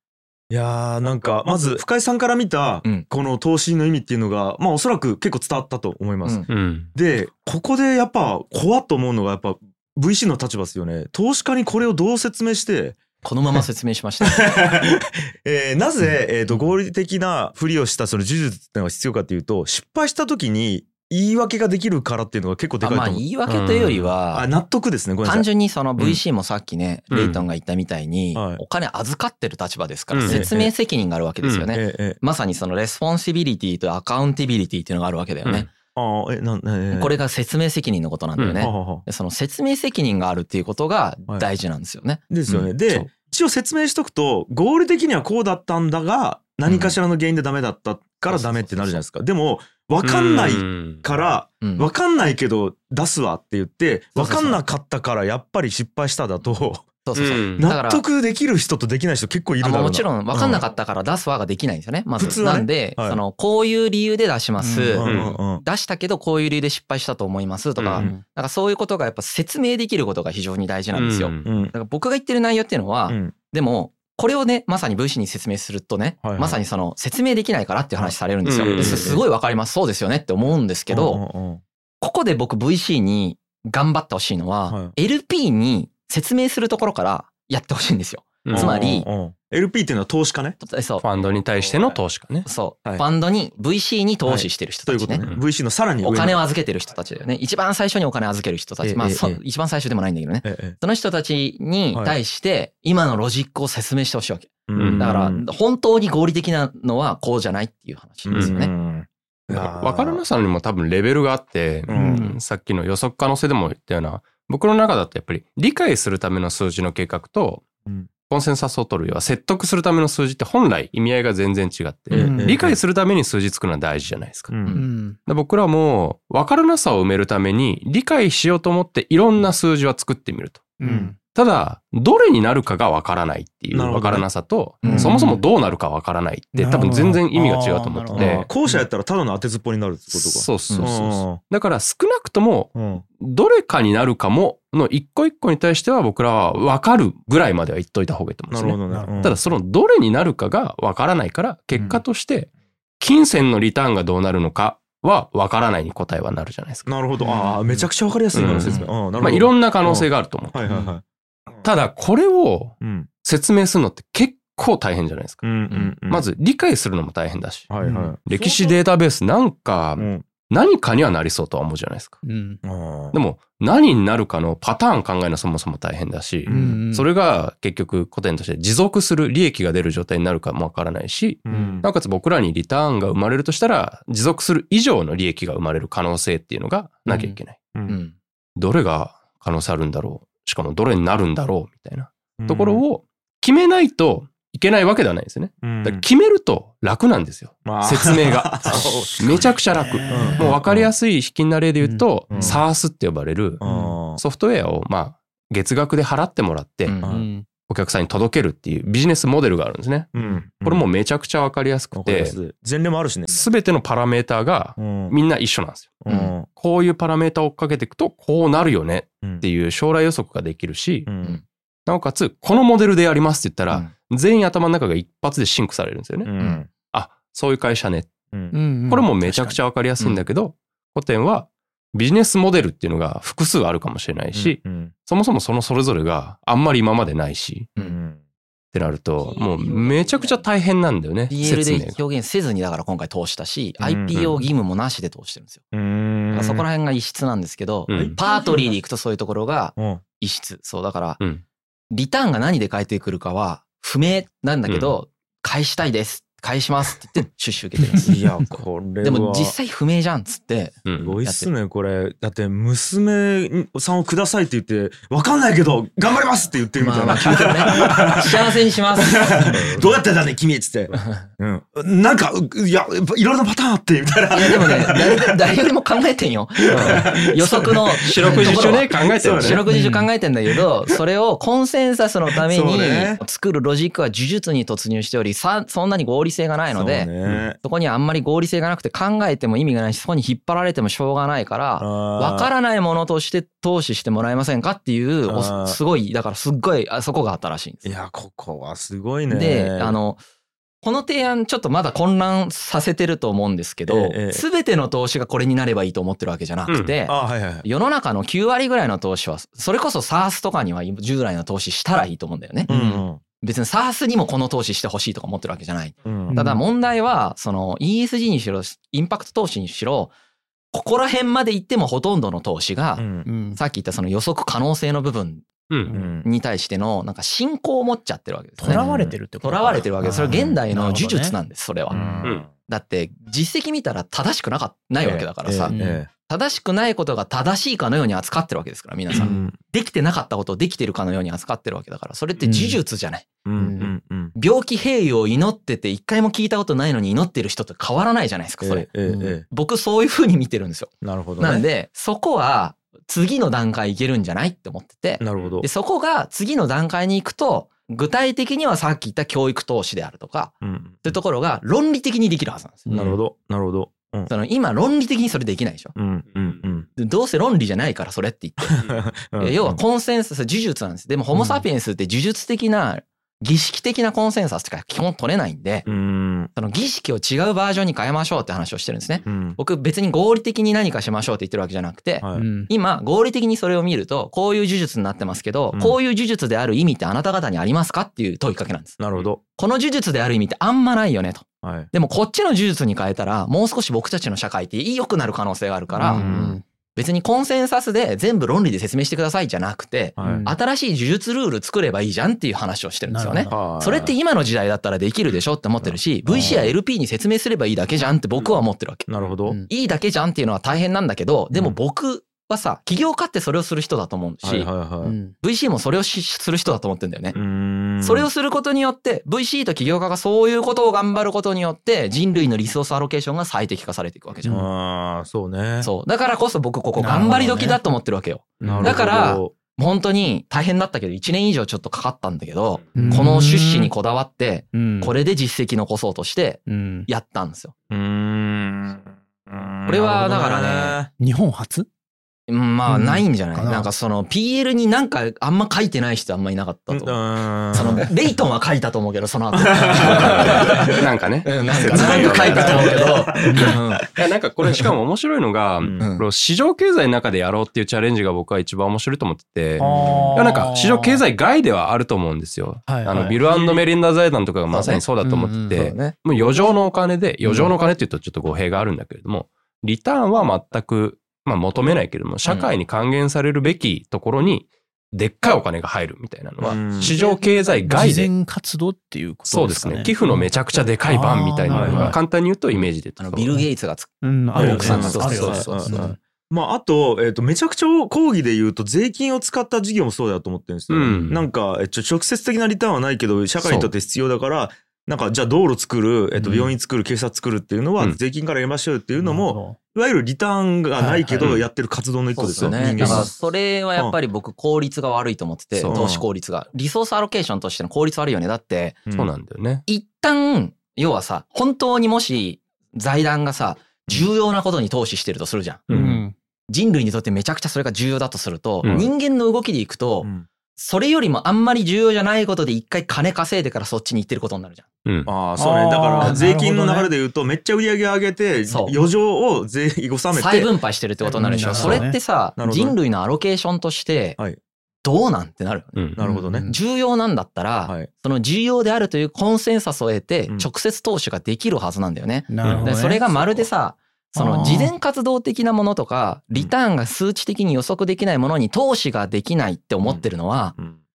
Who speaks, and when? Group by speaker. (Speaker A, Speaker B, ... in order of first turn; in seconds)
Speaker A: 0.5-13.0, 14.2-25.5, 28.3-28.6, 30.2-30.7, 31.7-32.2, 35.9-37.1, 38.6-39.0, 42.3-56.9, 57.6-60.6, 62.2-63.2, 65.0-65.6, 68.0-68.2, 71.4-71.7, 73.1-73.3, 76.2-76.6, 78.8-79.2, 80.9-81.6, 84.7-84.9, 88.5-90.6, 94.2-96.4, 98.8-99.4, 100.4-100.8, 104.7-105.4, 108.2-110.2, 111.9-112.3, 122.1-122.8, 124.5-124.8, 130.8-131.1, 133.7-134.3, 134.8-135.1, 138.1-141.4, 142.7-143.0, 148.5-149.4, 151.8-152.0, 156.9-161.0, 162.8-163.1, 165.4-166.2, 167.7-168.2, 170.0-170.2, 172.6-173.2, 176.4-176.8, 181.4-181.9, 192.4-192.8, 195.6-196.0, 197.6-199.5, 200.1-200.9, 202.3-202.6, 203.6-204.2, 207.0-207.3, 210.1-210.8, 211.9-213.4, 214.8-215.2, 216.0-216.5, 221.1-221.4, 226.2-226.7, 234.3-234.9, 237.8-238.2, 243.8-244.2, 245.7-246.7, 247.9-248.2, 249.8-250.0, 258.0-259.5, 261.0-268.5, 269.1-275.4, 276.6-279.6, 282.3-283.2, 286.7-287.6, 291.8-292.5, 295.2-295.8, 297.8-300.0, 303.9-304.4, 307.1-307.6, 312.7-313.2, 316.0-316.3, 323.0-323.2, 325.9-326.2, 328.7-329.1, 330.2-330.6, 331.9-332.5, 335.0-336.1, 339.1-339.6, 343.4-344.3, 348.6-349.4, 351.0-351.6, 355.2-355.6, 360.6-361.1, 362.9-364.3, 365.9-366.9, 368.6-369.8, 375.9-376.5, 379.2-379.6, 382.2-382.5, 389.0-389.4, 391.6-391.9, 396.0-396.6, 400.2-400.5, 403.5-404.1, 405.8-406.6, 409.1-409.6, 414.4-415.1, 417.3-418.3, 424.5-425.9, 428.6-429.5, 437.9-441.1, 446.9-448.1, 449.5-451.0, 451.7-453.8, 455.8-456.1, 459.8-460.6, 463.2-463.8, 476.6-477.2, 481.7-482.2, 484.5-503.3, 505.9-506.2, 515.9-516.1, 518.8-519.1, 520.2-520.5, 525.2-530.7, 531.4-533.0, 536.1-536.7, 543.2-543.7, 550.0-551.0
Speaker B: 6.5-6.9, 23.6-24.0, 27.1-27.4, 30.1-30.5, 38.4-38.7, 50.0-51.0, 57.1-57.6, 65.0-65.3, 67.8-68.1, 70.9-71.5, 78.4-79.2, 88.4-88.8, 91.0-92.5, 104.8-105.1, 109.5-117.7, 118.3-124.6, 125.2-130.7, 131.3-138.5, 140.1-156.9, 158.3-160.6, 161.6-165.5, 166.1-167.7, 168.2-172.2, 173.1-187.6, 188.6-203.6, 204.2-207.0, 207.7-210.1, 210.6-212.4, 213.3-221.1, 221.8-228.1, 228.9-237.7, 238.7-242.0, 244.1-244.4, 247.9-248.2, 254.7-254.9, 260.9-261.2, 278.1-279.6, 306.7-306.9, 450.3-452.9, 454.1-478.3, 479.5-483.6, 484.5-486.1, 490.9-491.4, 493.6-493.9, 503.0-503.2, 505.7-506.0, 509.1-509.8, 515.9-516.2, 525.0-525.3, 536.0-536.2, 542.6-542.9
Speaker C: 13.2-14.6, 22.8-24.5, 25.2-35.7, 36.9-42.7, 46.7-46.9, 48.3-49.0, 51.6-51.9, 54.1-54.6, 57.0-58.0, 59.6-81.2, 82.0-89.1, 90.6-91.0, 92.4-95.2, 96.0-108.7, 168.3-168.8, 187.9-188.1, 216.1-216.3, 230.0-230.2, 239.2-240.4, 241.3-245.6, 246.3-251.2, 251.9-258.2, 259.0-261.5, 266.8-269.9, 270.9-271.2, 274.3-287.1, 287.6-297.9, 299.3-300.2, 300.8-312.8, 313.4-320.1, 320.7-325.4, 326.2-335.8, 336.3-343.3, 344.3-348.9, 349.5-363.1, 364.3-365.9, 366.9-375.9, 376.5-389.0, 389.6-396.4, 396.9-409.1, 409.7-414.7, 415.4-417.4, 418.0-424.6, 425.8-437.7, 439.9-441.0, 442.5-454.1, 456.0-456.2, 464.7-465.0, 465.7-466.1, 472.4-472.7, 483.2-485.9, 502.3-509.0, 509.9-515.8, 516.7-524.8, 528.7-528.9, 530.3-534.4, 535.0-550.8
Speaker D: 64.6-65.2, 111.9-112.3, 122.1-122.6, 124.7-125.2, 130.8-131.2, 134.8-135.4, 136.6-138.8, 148.9-149.4, 157.2-157.9, 160.7-160.9, 167.8-168.2, 172.2-172.6, 176.5-177.1, 181.5-181.8, 187.1-187.3, 198.7-200.5, 201.8-202.6, 203.6-204.0, 207.1-207.4, 228.5-229.6, 279.7-280.1, 312.7-313.0, 316.3-316.6, 323.2-323.6, 325.9-326.1, 328.6-331.4, 331.9-332.2, 335.7-336.0, 339.1-339.4, 342.4-342.8, 343.6-343.9, 349.1-349.4, 362.9-363.1, 371.3-371.6, 382.3-382.7, 395.9-396.6, 400.2-400.5, 403.1-403.6, 406.3-406.7, 415.0-415.3, 427.0-427.8, 428.6-429.0, 432.9-433.9, 434.7-435.1, 436.7-437.1, 441.2-441.9, 442.9-443.9, 451.9-453.8, 459.8-461.2, 462.9-463.4, 465.2-466.7, 467.5-467.7, 476.6-482.2, 484.2-486.2, 496.4-496.7, 499.2-499.8, 500.9-501.6, 502.9-503.2, 515.9-516.3, 525.6-527.1, 531.3-532.2, 536.2-536.8, 542.5-543.2, 544.4-544.9